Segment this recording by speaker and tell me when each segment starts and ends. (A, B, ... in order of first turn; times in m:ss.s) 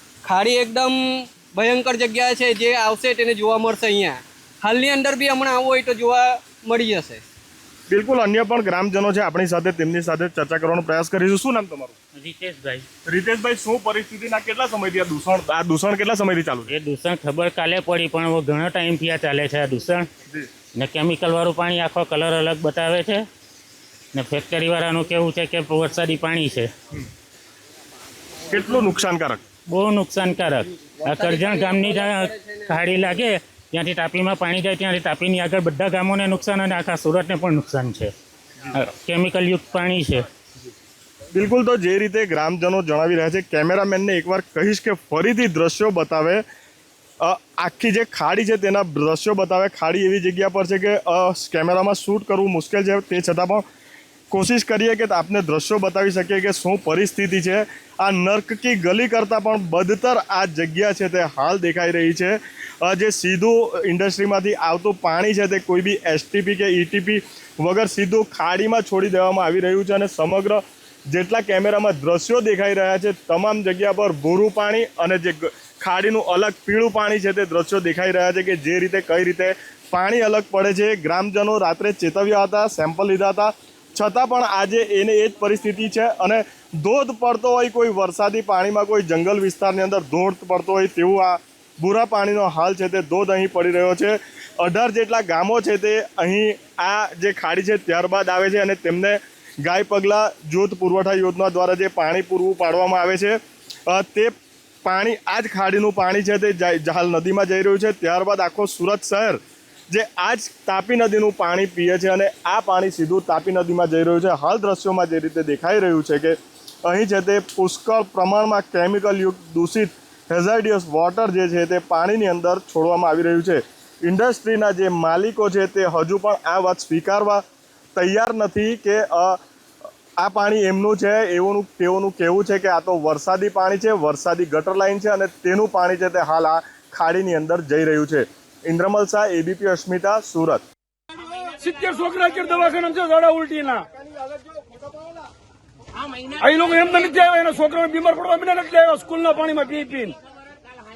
0:00.2-0:07.2 A
0:07.9-0:12.0 B
0:12.2-0:12.9 C
0:13.0-0:16.8 B
0:16.7-0:20.1 C
0:20.8-0:23.3 C
0:24.1-0:26.7 C
0:28.5-0:29.4 B
0:29.7-0:38.1 C
0:31.3-0:32.1 A
0:38.7-0:40.3 C
0:41.3-0:46.4 B
0:47.2-0:53.6 B
0:54.3-2:07.4 B
2:08.0-2:09.4 B
2:10.2-2:20.6 B
2:21.6-2:23.8 D
2:26.4-2:30.2 D